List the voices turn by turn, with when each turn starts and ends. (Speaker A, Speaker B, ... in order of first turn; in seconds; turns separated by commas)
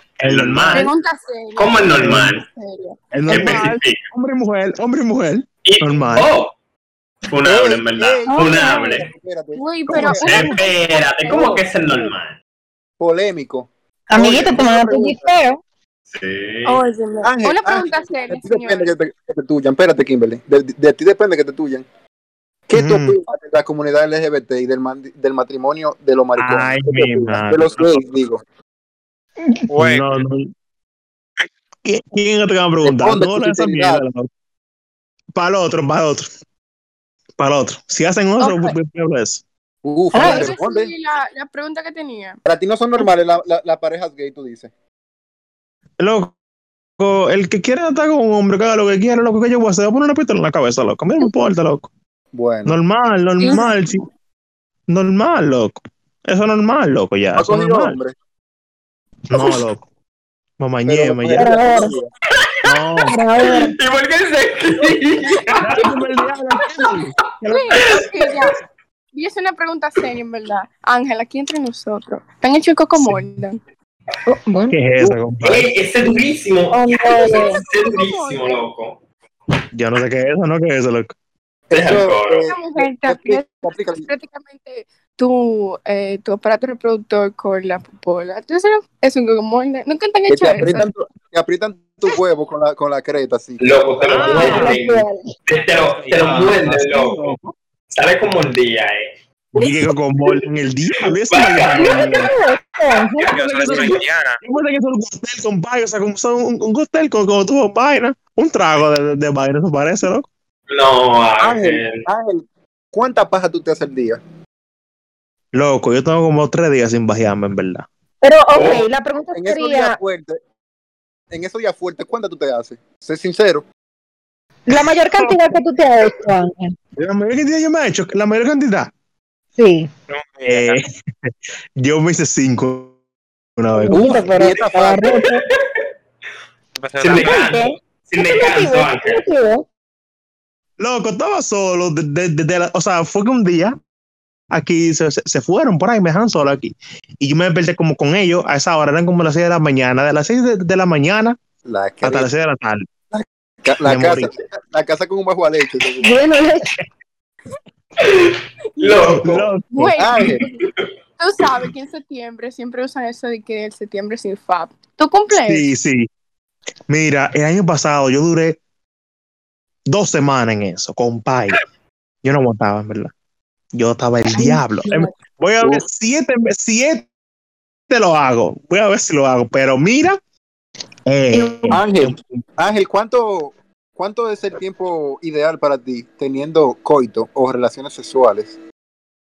Speaker A: 0.2-0.9, Speaker B: 0.2-0.9, Speaker C: 0.7-3.8, Speaker B: 1.6-2.4, Speaker A: 2.0-2.3, Speaker A: 3.1-6.3, Speaker B: 3.3-4.0, Speaker B: 5.7-6.5, Speaker B: 7.3-9.1, Speaker D: 7.4-10.5, Speaker E: 8.3-8.9, Speaker C: 9.5-11.5, Speaker A: 9.9-10.6, Speaker B: 10.2-12.4, Speaker D: 11.2-11.6, Speaker D: 13.0-15.3, Speaker E: 14.1-15.6, Speaker B: 16.1-16.8, Speaker C: 16.6-18.9, Speaker D: 17.2-21.8, Speaker D: 22.7-28.4, Speaker A: 22.7-23.2, Speaker A: 26.4-28.1, Speaker A: 29.7-30.5, Speaker A: 31.8-34.3, Speaker D: 32.8-34.0, Speaker A: 35.4-36.3, Speaker A: 37.4-39.4, Speaker C: 38.4-38.7, Speaker D: 39.8-40.9, Speaker E: 40.1-40.5, Speaker C: 40.1-42.4, Speaker D: 42.5-44.7, Speaker A: 46.0-46.3, Speaker A: 47.0-51.9, Speaker D: 52.3-52.8, Speaker A: 52.6-54.0, Speaker C: 53.4-53.7, Speaker A: 54.9-57.9, Speaker D: 57.3-58.1, Speaker A: 59.3-59.9, Speaker A: 60.6-61.6, Speaker D: 60.9-62.0, Speaker E: 61.4-61.9, Speaker B: 62.3-62.6, Speaker A: 62.6-63.2, Speaker E: 63.1-63.7, Speaker B: 63.4-65.8, Speaker C: 65.3-66.3, Speaker A: 65.6-68.0, Speaker C: 67.5-68.5, Speaker B: 67.8-68.4, Speaker C: 69.1-73.6, Speaker A: 72.9-73.3, Speaker E: 74.3-74.8, Speaker A: 74.7-75.7, Speaker B: 75.4-79.0, Speaker E: 76.7-77.6, Speaker C: 77.2-78.6, Speaker A: 79.7-81.1, Speaker D: 81.7-84.1, Speaker B: 81.7-82.5, Speaker C: 82.5-83.5, Speaker C: 84.1-90.9, Speaker D: 90.3-93.6, Speaker B: 93.6-97.3, Speaker A: 94.0-94.8, Speaker E: 94.2-95.3, Speaker F: 95.5-96.6, Speaker A: 96.6-97.5, Speaker B: 97.9-99.8, Speaker A: 99.5-102.3, Speaker B: 101.3-102.2, Speaker E: 101.8-103.3, Speaker B: 103.2-104.0, Speaker F: 103.3-104.4, Speaker A: 103.5-110.3, Speaker B: 110.7-112.0, Speaker D: 111.4-112.4, Speaker D: 112.9-114.2, Speaker A: 115.5-117.9, Speaker E: 118.2-120.0, Speaker B: 118.5-118.8, Speaker D: 119.3-120.4, Speaker D: 121.3-123.6, Speaker E: 124.7-126.8, Speaker A: 125.0-125.4, Speaker A: 127.0-128.9, Speaker E: 129.6-129.9, Speaker F: 130.1-130.8, Speaker A: 130.5-132.9, Speaker A: 133.6-134.3, Speaker E: 133.7-135.4, Speaker D: 133.9-135.2, Speaker B: 135.2-135.6, Speaker F: 136.8-137.4, Speaker B: 137.0-139.2, Speaker E: 137.3-139.6, Speaker A: 140.8-143.7, Speaker A: 144.5-151.3, Speaker D: 151.6-152.3, Speaker A: 152.0-152.8, Speaker D: 153.1-156.1, Speaker A: 153.8-154.3, Speaker E: 156.0-156.8, Speaker B: 158.0-159.6, Speaker A: 159.2-159.9, Speaker C: 159.7-160.6, Speaker D: 160.0-160.5, Speaker C: 161.2-165.7, Speaker A: 165.3-166.1, Speaker A: 166.9-168.6, Speaker A: 169.9-171.6, Speaker A: 172.2-173.1, Speaker A: 173.7-177.1, Speaker C: 174.8-175.1, Speaker A: 177.9-180.2, Speaker A: 181.1-182.4, Speaker E: 181.3-181.8, Speaker D: 181.7-188.5